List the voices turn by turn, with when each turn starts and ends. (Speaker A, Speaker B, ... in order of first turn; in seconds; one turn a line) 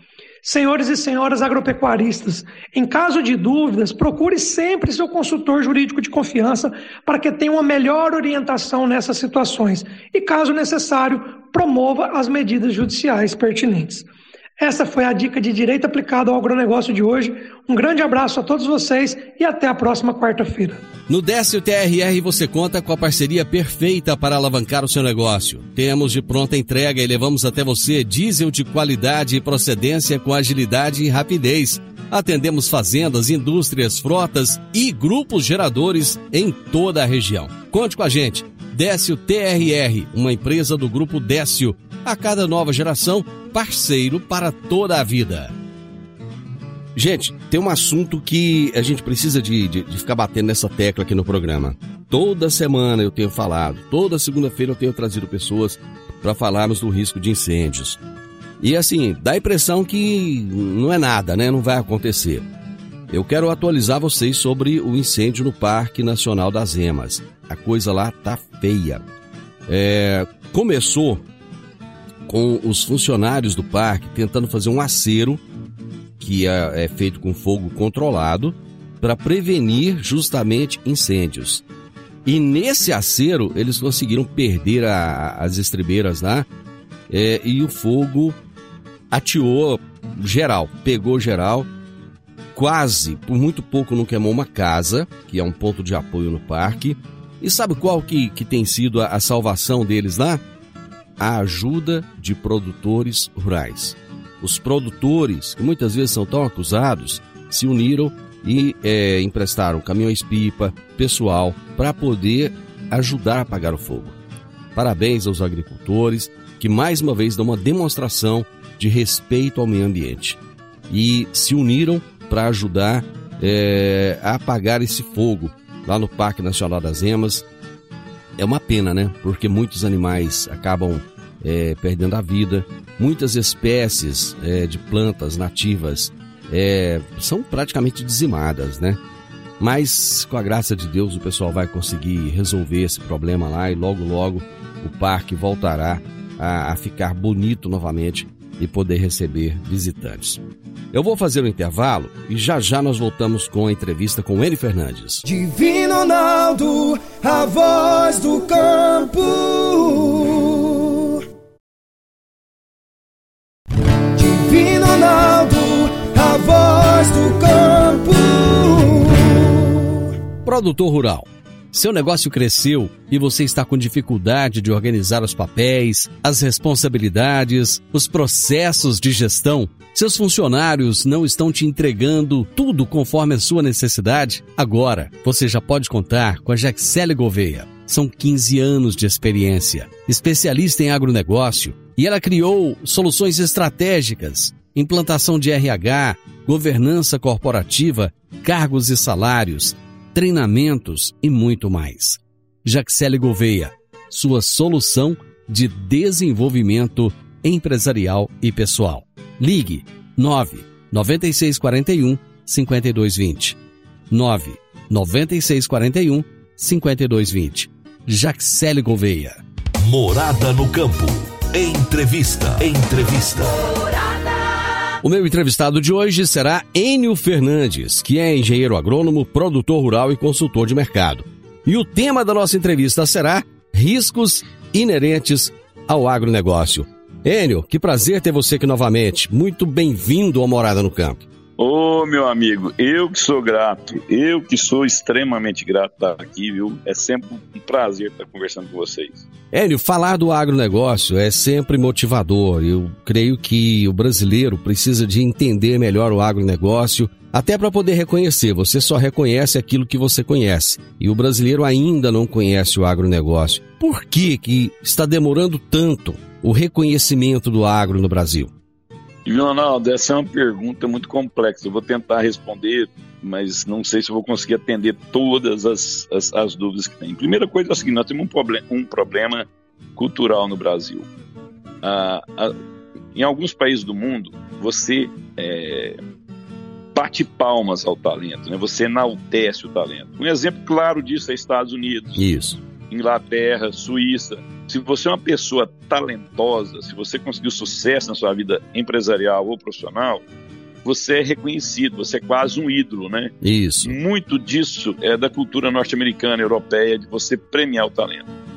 Speaker A: 0.4-14.1
Speaker A: 14.6-20.8
Speaker B: 21.1-45.5
Speaker B: 47.0-58.0
Speaker B: 58.6-62.5
Speaker B: 63.1-69.0
Speaker B: 69.7-71.2
Speaker B: 72.3-75.4
Speaker B: 76.2-81.6
Speaker B: 82.2-86.5
Speaker B: 87.1-88.4
Speaker B: 89.1-91.7
Speaker B: 92.5-100.4
Speaker B: 101.2-114.2
Speaker B: 114.7-127.5
Speaker B: 128.4-139.0
Speaker B: 139.6-155.2
Speaker C: 155.2-161.2
Speaker C: 164.2-169.9
Speaker B: 170.4-213.6
Speaker B: 214.1-219.4
Speaker D: 219.8-223.6
Speaker B: 225.0-241.2
Speaker E: 241.6-249.2
Speaker B: 249.5-268.5
Speaker E: 269.2-281.1
Speaker E: 281.8-282.5
Speaker E: 283.1-286.0
Speaker E: 286.9-292.2
Speaker B: 292.2-292.6
Speaker E: 292.9-300.2
Speaker E: 300.8-303.3
Speaker B: 303.4-303.9
Speaker E: 303.8-308.2